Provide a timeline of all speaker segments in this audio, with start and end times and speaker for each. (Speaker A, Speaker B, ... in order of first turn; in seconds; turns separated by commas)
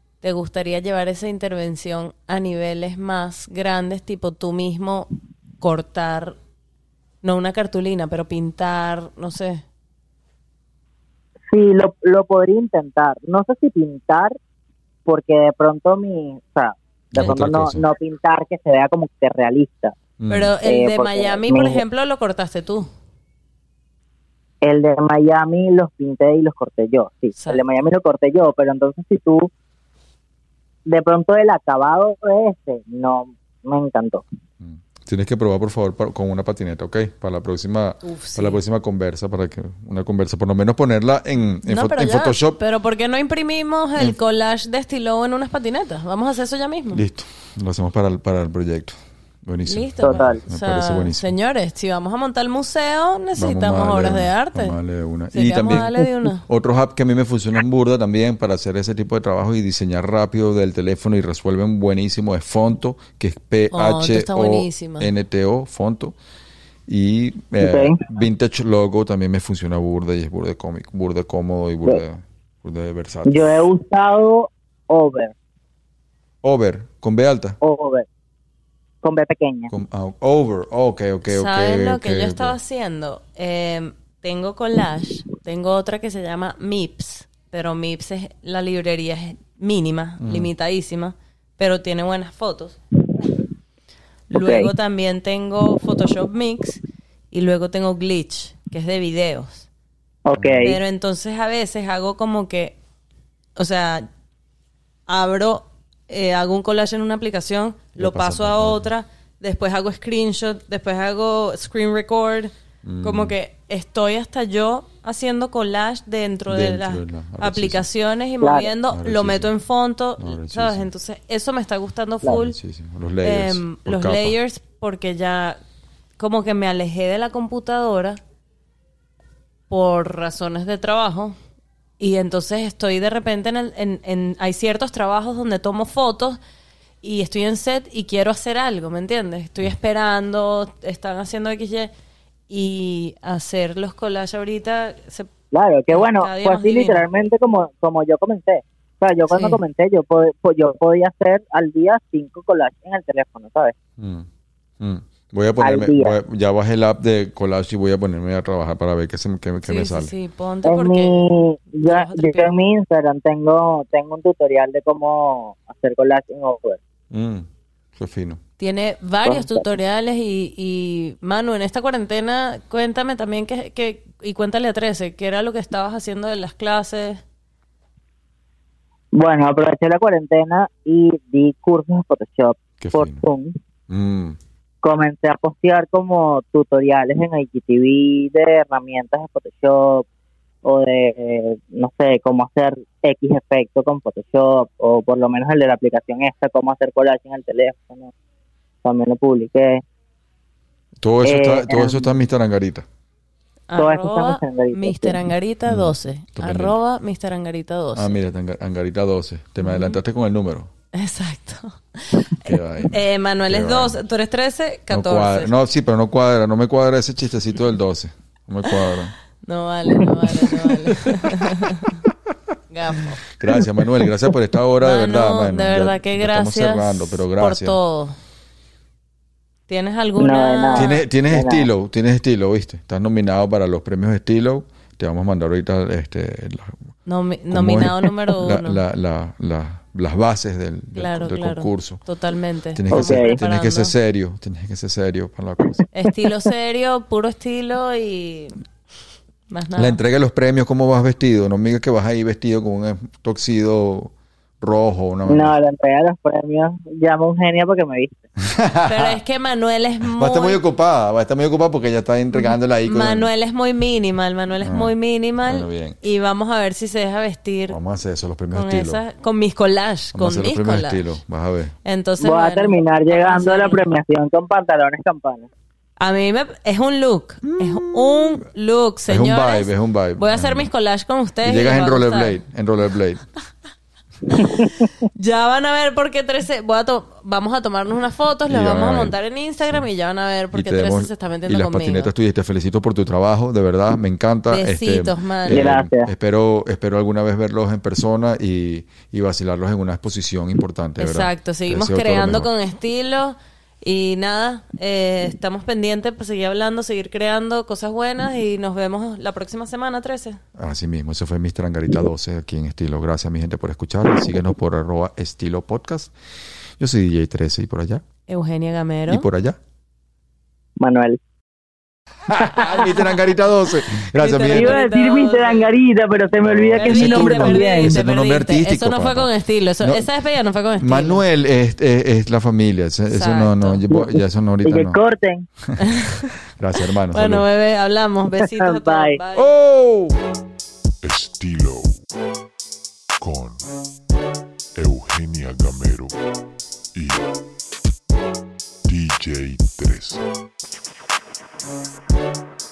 Speaker A: 0.2-5.1, Speaker A: 5.6-6.4, Speaker A: 7.2-9.6, Speaker B: 11.5-14.3, Speaker B: 15.1-19.9, Speaker C: 17.1-17.8, Speaker C: 20.2-20.5, Speaker A: 20.3-22.9, Speaker B: 20.6-21.8, Speaker B: 24.6-29.5, Speaker B: 30.9-34.2, Speaker C: 34.6-42.6, Speaker A: 38.0-38.6, Speaker A: 41.7-47.0, Speaker C: 46.9-51.3, Speaker A: 49.7-54.8, Speaker B: 50.0-50.4, Speaker C: 53.4-55.9, Speaker A: 55.3-56.4, Speaker C: 56.4-66.2, Speaker A: 63.7-65.1, Speaker C: 66.9-73.7, Speaker B: 67.6-68.0, Speaker B: 73.3-75.3, Speaker C: 76.4-77.6, Speaker B: 77.6-78.0, Speaker B: 79.0-79.7, Speaker C: 79.7-82.5, Speaker A: 81.3-92.8, Speaker C: 90.2-90.5, Speaker A: 94.3-96.8, Speaker B: 94.3-94.7, Speaker A: 97.3-99.7, Speaker B: 100.2-100.8, Speaker C: 100.3-100.6, Speaker A: 100.6-102.8, Speaker A: 103.6-104.1, Speaker A: 105.1-112.5, Speaker C: 108.0-108.9, Speaker C: 112.8-113.3, Speaker A: 113.0-122.6, Speaker C: 116.5-117.8, Speaker B: 118.4-118.7, Speaker C: 118.9-119.5, Speaker C: 120.2-120.9, Speaker C: 122.2-124.3, Speaker A: 123.2-125.6, Speaker A: 126.2-128.2, Speaker A: 129.7-131.3, Speaker A: 132.0-136.4, Speaker A: 137.0-141.9, Speaker A: 142.5-145.3, Speaker B: 145.5-153.7, Speaker A: 145.9-147.0, Speaker A: 149.3-149.6, Speaker C: 154.0-154.3, Speaker C: 154.8-160.1, Speaker B: 155.6-156.1, Speaker A: 159.6-162.5, Speaker B: 160.6-166.8, Speaker C: 167.1-168.4, Speaker A: 168.6-177.2, Speaker B: 169.2-169.6, Speaker B: 179.1-183.5, Speaker C: 182.8-183.2, Speaker C: 183.9-184.4, Speaker B: 184.8-190.0, Speaker B: 190.6-198.1, Speaker B: 198.8-199.8, Speaker C: 201.0-202.8, Speaker B: 201.2-202.1, Speaker A: 203.7-208.2, Speaker B: 203.8-205.2, Speaker C: 205.7-206.7, Speaker C: 207.9-210.7, Speaker A: 209.6-210.0, Speaker A: 210.9-215.5, Speaker C: 212.4-214.0, Speaker C: 214.9-219.1, Speaker A: 219.4-222.0, Speaker A: 222.7-223.2, Speaker C: 223.3-227.8, Speaker A: 224.8-228.2, Speaker A: 229.7-231.0, Speaker B: 230.2-231.7, Speaker C: 230.8-236.9, Speaker A: 237.1-238.8, Speaker C: 237.5-242.0, Speaker A: 240.9-243.9, Speaker C: 242.7-245.8, Speaker B: 242.9-243.3, Speaker A: 245.9-248.6, Speaker A: 249.5-250.0, Speaker C: 249.8-255.6, Speaker B: 255.3-258.2, Speaker C: 258.4-259.2, Speaker A: 258.9-260.6, Speaker C: 260.1-263.3, Speaker A: 262.3-267.8, Speaker C: 264.6-264.9, Speaker C: 265.4-266.0, Speaker C: 267.7-269.0, Speaker A: 268.5-271.0, Speaker C: 270.1-271.7, Speaker A: 271.8-273.8, Speaker B: 272.2-275.5, Speaker A: 276.0-282.4, Speaker C: 277.4-278.4, Speaker C: 279.1-280.7, Speaker C: 281.4-283.2, Speaker A: 284.3-284.6, Speaker B: 284.4-284.7, Speaker A: 285.1-292.1, Speaker C: 288.5-289.1, Speaker C: 290.5-302.5, Speaker A: 294.5-295.7, Speaker B: 295.5-296.1, Speaker A: 301.0-310.4, Speaker C: 310.6-316.1, Speaker C: 316.8-318.0, Speaker A: 318.3-319.2, Speaker C: 319.1-319.6, Speaker B: 320.8-321.2, Speaker C: 322.3-324.8, Speaker A: 324.1-325.7, Speaker B: 324.5-328.0, Speaker C: 326.4-330.1, Speaker A: 326.8-331.2, Speaker C: 330.8-335.0, Speaker A: 333.1-333.8, Speaker B: 334.6-335.4, Speaker A: 335.8-336.3, Speaker C: 336.4-337.4, Speaker A: 337.1-339.5, Speaker B: 338.6-339.2, Speaker C: 339.3-340.2, Speaker D: 341.0-341.9, Speaker D: 343.2-343.6, Speaker D: 344.8-346.1, Speaker D: 346.9-347.3, Speaker D: 348.9-350.2